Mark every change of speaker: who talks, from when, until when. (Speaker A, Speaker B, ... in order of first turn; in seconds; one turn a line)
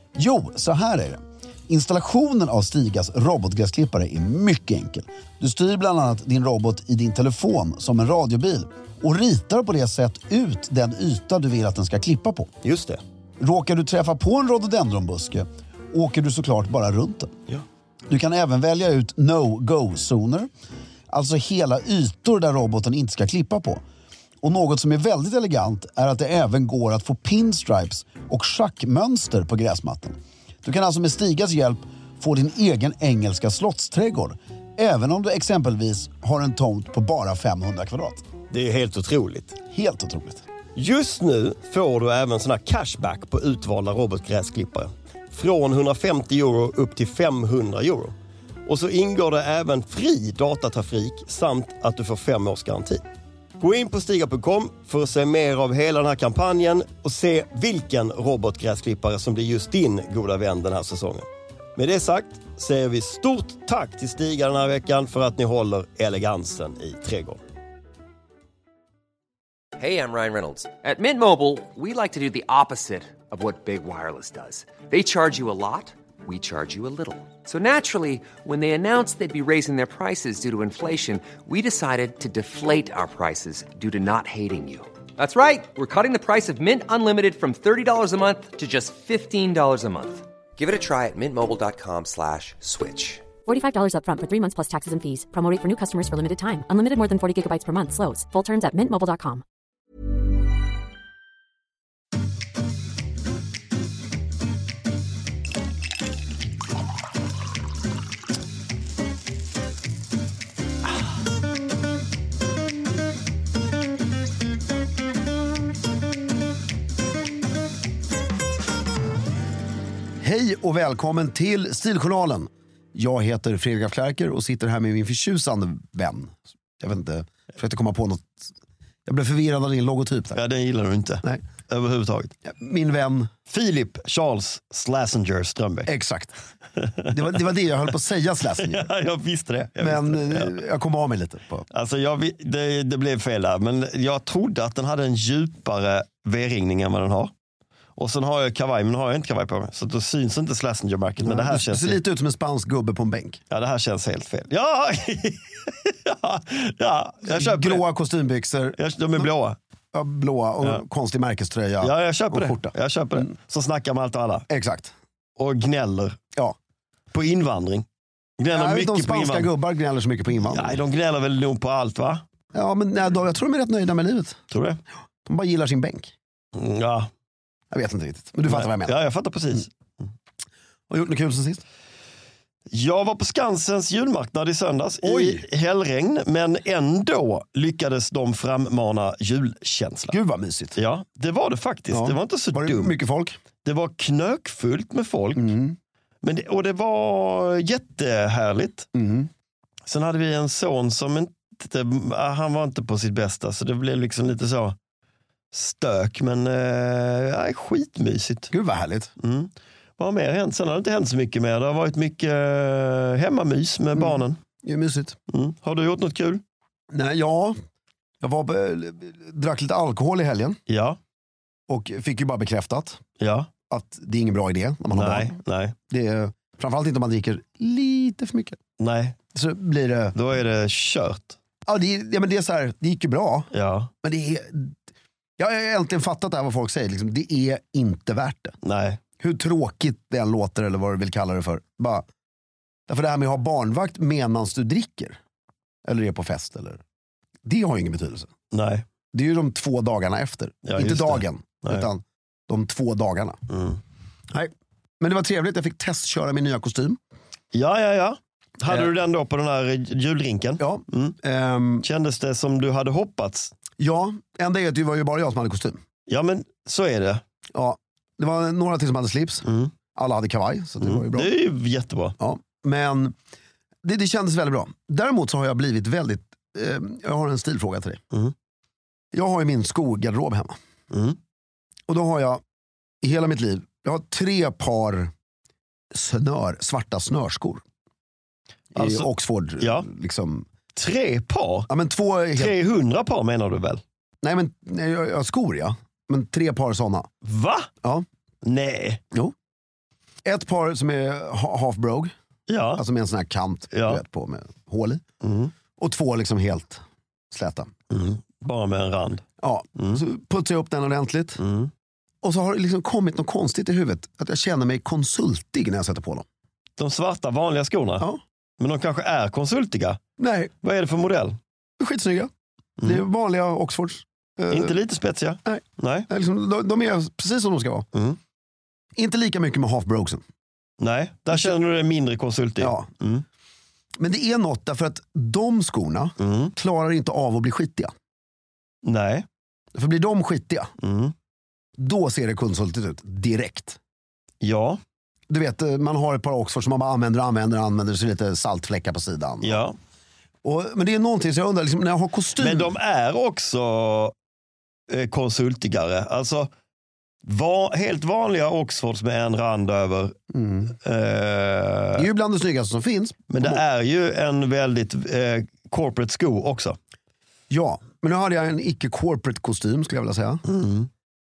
Speaker A: 0.1-12.5
Speaker B: 12.6-13.0
Speaker A: 13.4-17.3
Speaker A: 18.1-20.5
Speaker A: 21.1-23.8
Speaker A: 24.4-38.2
Speaker B: 38.5-39.6
Speaker A: 39.7-40.4
Speaker B: 40.7-48.1
Speaker B: 48.6-53.0
Speaker B: 53.6-67.4
Speaker C: 69.8-93.2
Speaker D: 93.4-99.4
Speaker A: 120.2-128.4
Speaker A: 129.1-130.4
Speaker B: 130.3-132.3
Speaker A: 132.4-133.3
Speaker B: 133.5-135.9
Speaker A: 135.8-136.3
Speaker B: 136.8-137.4
Speaker A: 137.1-138.9
Speaker B: 138.6-140.5
Speaker A: 139.8-141.7
Speaker B: 141.7-147.3
Speaker B: 147.9-152.0
Speaker A: 151.2-153.4
Speaker B: 153.5-157.8
Speaker A: 157.2-159.3
Speaker B: 158.8-159.6
Speaker A: 159.9-162.7
Speaker B: 161.8-164.5
Speaker A: 164.5-164.9
Speaker B: 165.4-166.2
Speaker B: 167.1-167.9
Speaker B: 168.4-169.5
Speaker A: 168.5-170.8
Speaker B: 170.3-172.2
Speaker A: 172.5-174.4
Speaker B: 174.5-174.8
Speaker A: 175.2-176.1
Speaker B: 176.5-177.1
Speaker A: 177.7-179.0
Speaker B: 178.5-180.1
Speaker A: 180.9-181.6
Speaker B: 182.7-190.2
Speaker A: 185.0-185.4
Speaker A: 190.1-190.8
Speaker B: 190.7-193.0
Speaker A: 191.9-193.4
Speaker B: 193.6-195.5
Speaker A: 195.3-195.8
Speaker B: 196.2-198.9
Speaker A: 198.9-199.3
Speaker B: 199.8-204.8
Speaker B: 205.5-208.5
Speaker A: 208.5-209.1
Speaker B: 209.2-214.4
Speaker A: 213.9-215.2
Speaker B: 215.3-216.4
Speaker A: 216.9-217.6
Speaker A: 218.2-220.6
Speaker B: 220.7-221.0
Speaker A: 221.7-223.0
Speaker B: 223.2-223.5
Speaker A: 223.7-225.3
Speaker B: 224.9-225.8
Speaker A: 225.9-228.6
Speaker B: 228.8-229.2
Speaker A: 229.3-230.1
Speaker B: 230.1-231.4
Speaker A: 231.7-233.5
Speaker B: 233.5-233.9
Speaker A: 234.0-234.8
Speaker A: 235.4-238.6
Speaker B: 238.6-239.0
Speaker A: 239.2-242.0
Speaker A: 242.9-245.2
Speaker A: 245.8-246.8
Speaker A: 247.4-248.3
Speaker B: 248.5-248.8
Speaker A: 249.1-253.4
Speaker B: 250.6-251.9
Speaker B: 253.5-253.8
Speaker A: 254.3-257.0
Speaker B: 257.5-261.2
Speaker A: 260.6-261.8
Speaker B: 261.8-263.5
Speaker A: 263.8-265.8
Speaker B: 266.1-267.2
Speaker A: 267.5-271.3
Speaker B: 269.4-269.7
Speaker B: 270.8-272.1
Speaker A: 272.2-273.1
Speaker A: 273.8-278.0
Speaker A: 279.1-280.5
Speaker B: 280.9-281.2
Speaker A: 281.9-282.4
Speaker A: 283.0-285.1
Speaker A: 285.9-287.6
Speaker A: 288.7-290.4
Speaker B: 288.7-289.9
Speaker B: 290.7-291.7
Speaker A: 291.7-292.5
Speaker B: 292.3-293.8
Speaker A: 294.2-297.1
Speaker B: 297.2-297.7
Speaker B: 298.4-299.0
Speaker A: 300.2-302.1
Speaker B: 302.5-302.8
Speaker A: 302.8-305.0
Speaker B: 303.7-304.0
Speaker B: 305.2-305.5
Speaker A: 305.8-307.7
Speaker B: 307.9-309.2
Speaker A: 309.4-311.4
Speaker B: 309.8-310.0
Speaker B: 311.4-311.7
Speaker A: 312.2-316.2
Speaker B: 316.8-318.1
Speaker B: 318.6-320.0
Speaker A: 320.2-320.5
Speaker B: 320.6-321.4
Speaker A: 321.8-322.3
Speaker A: 322.8-324.7
Speaker B: 324.5-326.1
Speaker A: 325.4-327.9
Speaker B: 327.9-328.2
Speaker A: 328.9-330.2
Speaker B: 330.8-333.2
Speaker A: 332.6-332.9
Speaker A: 334.0-337.9
Speaker B: 336.2-336.5
Speaker B: 338.8-339.3
Speaker A: 339.7-340.7
Speaker B: 340.8-341.1
Speaker A: 341.8-343.8
Speaker B: 344.4-344.8
Speaker A: 345.3-349.6
Speaker B: 349.4-349.8
Speaker A: 350.4-352.7
Speaker B: 352.4-354.1
Speaker B: 354.9-356.5
Speaker B: 357.2-360.2
Speaker A: 360.3-360.7
Speaker B: 360.8-362.1
Speaker A: 361.9-363.6
Speaker B: 363.3-366.8
Speaker A: 367.5-370.4
Speaker B: 370.4-370.9